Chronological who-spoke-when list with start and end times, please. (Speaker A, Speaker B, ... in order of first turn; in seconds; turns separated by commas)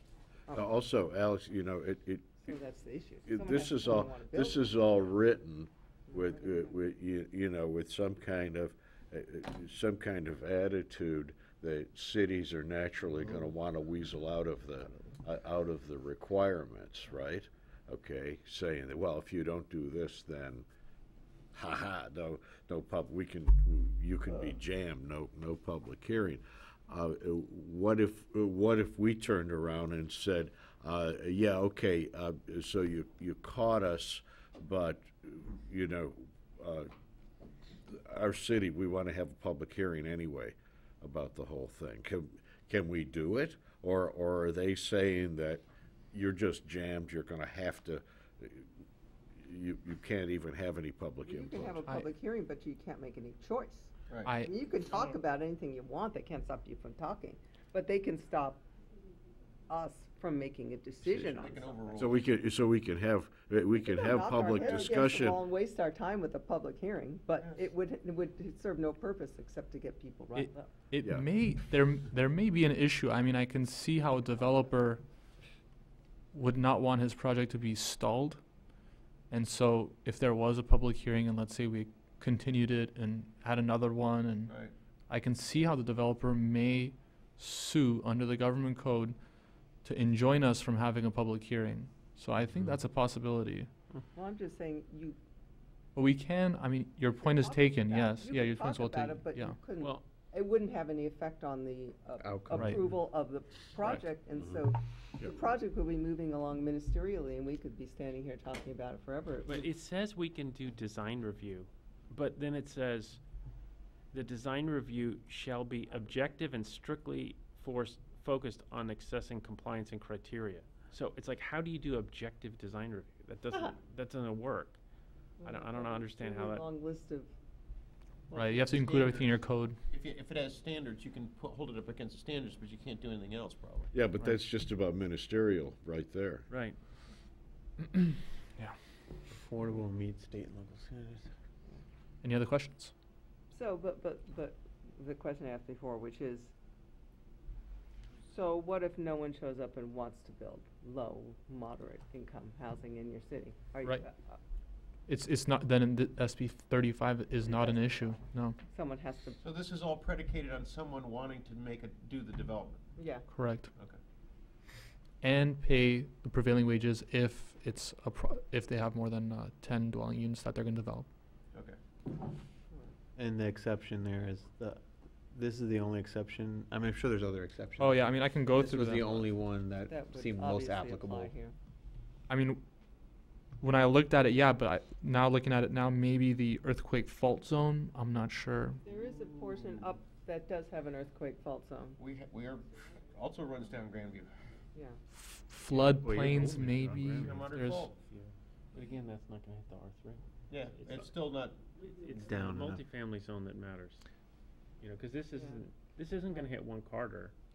Speaker A: 0.5-2.5, Speaker B: 2.4-4.8, Speaker A: 3.3-20.7, Speaker B: 6.1-6.7, Speaker A: 21.5-36.9, Speaker A: 37.9-48.7, Speaker A: 49.4-51.8, Speaker B: 51.2-58.6, Speaker C: 54.2-54.5, Speaker B: 59.7-61.8, Speaker D: 61.0-62.3, Speaker A: 62.0-65.4, Speaker B: 63.8-70.7, Speaker C: 70.3-75.0, Speaker A: 71.0-71.3, Speaker C: 76.3-78.4, Speaker C: 79.3-84.5, Speaker D: 84.5-84.7, Speaker C: 85.1-89.2, Speaker C: 89.8-93.7, Speaker B: 94.2-95.2, Speaker C: 96.0-99.6, Speaker B: 97.2-109.7, Speaker E: 99.8-100.0, Speaker F: 102.2-102.6, Speaker E: 109.5-113.2, Speaker E: 114.1-124.8, Speaker B: 125.4-127.3, Speaker E: 125.4-126.7, Speaker D: 128.3-129.4, Speaker C: 128.3-129.8, Speaker D: 129.9-133.9, Speaker A: 133.9-136.5, Speaker E: 136.5-136.8, Speaker C: 137.8-138.7, Speaker F: 139.3-141.3, Speaker C: 142.2-142.9, Speaker B: 143.5-146.5, Speaker B: 148.3-154.4, Speaker C: 155.1-158.6, Speaker B: 157.4-158.2, Speaker B: 158.7-159.4, Speaker D: 159.4-162.9, Speaker B: 163.0-163.3, Speaker C: 163.3-163.7, Speaker C: 165.2-171.1, Speaker F: 173.2-181.3, Speaker C: 177.8-179.1, Speaker B: 179.9-181.6, Speaker C: 182.3-182.6, Speaker C: 183.6-188.8, Speaker B: 188.9-192.0, Speaker D: 188.9-189.9, Speaker D: 192.0-194.3, Speaker B: 194.7-195.0, Speaker C: 195.1-197.9, Speaker F: 195.9-197.3, Speaker D: 197.1-197.9, Speaker E: 197.9-201.2, Speaker D: 200.5-201.6, Speaker E: 201.8-204.1, Speaker F: 202.2-202.8, Speaker E: 204.8-207.3